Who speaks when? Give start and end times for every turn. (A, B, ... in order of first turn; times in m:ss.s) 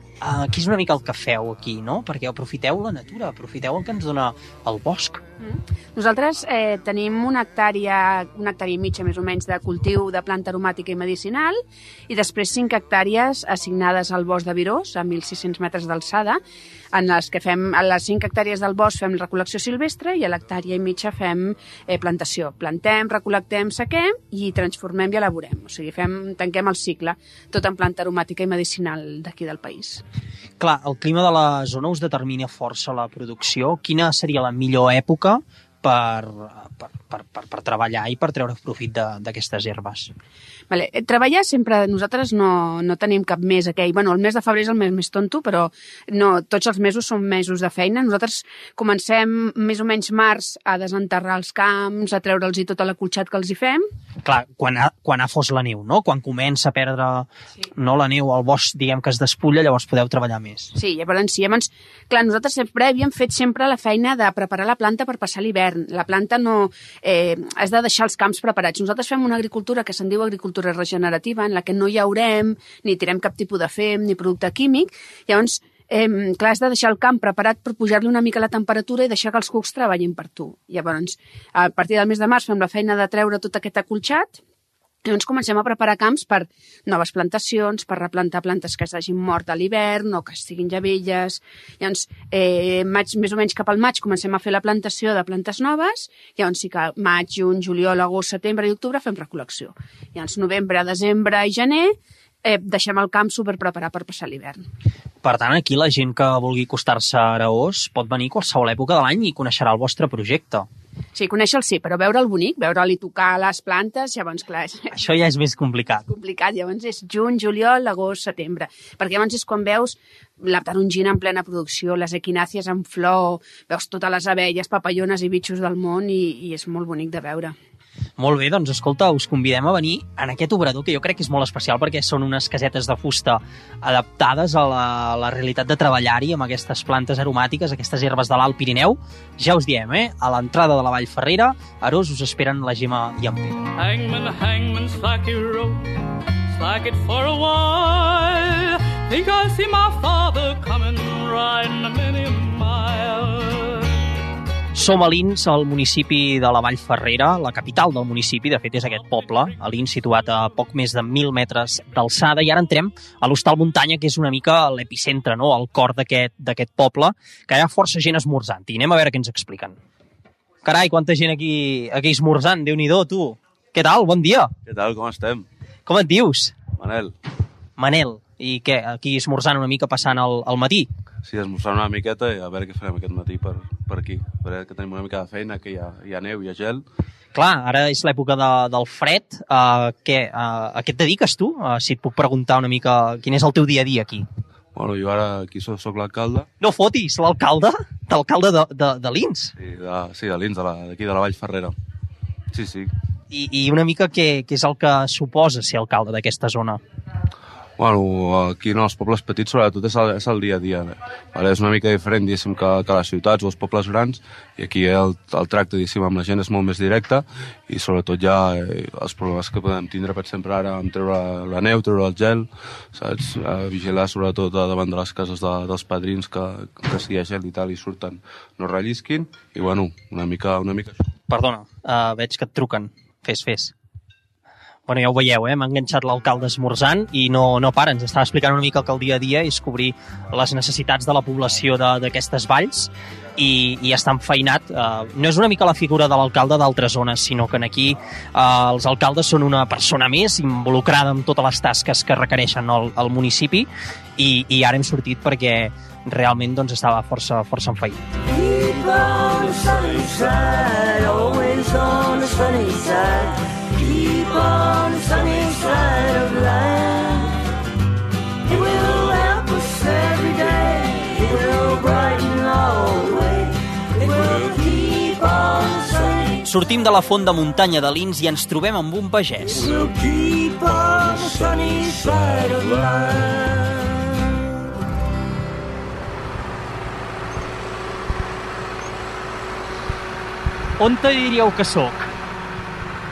0:00.2-0:05.2 A
0:05.4-0:16.4 B
0:16.9-0:30.0 B
0:30.6-0:40.1 A
0:40.7-0:53.8 B
0:54.2-1:00.7 A
1:00.8-1:24.4 B
1:25.0-1:44.6 B
1:45.2-1:50.7 A
1:51.2-1:54.9 B
1:54.9-1:56.1 A
1:56.1-2:07.6 B
2:08.2-2:23.6 A
2:23.8-2:25.8 C
2:26.5-2:33.9 C
2:34.8-2:49.8 A
2:50.6-2:54.5 A
2:54.7-2:55.5 D
2:55.9-2:56.6 A
2:56.7-2:57.1 D
2:57.8-3:00.9 A
3:01.2-3:06.8 D
3:07.4-3:14.2 A
3:14.8-3:16.5 D
3:16.6-3:19.5 A
3:19.6-3:21.8 D
3:22.5-3:22.9 D
3:23.3-3:26.8 A
3:27.8-3:51.0 D
3:51.3-3:53.7 A
3:54.9-4:18.0 A
4:18.3-4:27.4 E
4:28.5-4:36.4 E
4:36.4-4:39.6 A
4:39.4-4:44.0 E
4:50.8-4:52.1 A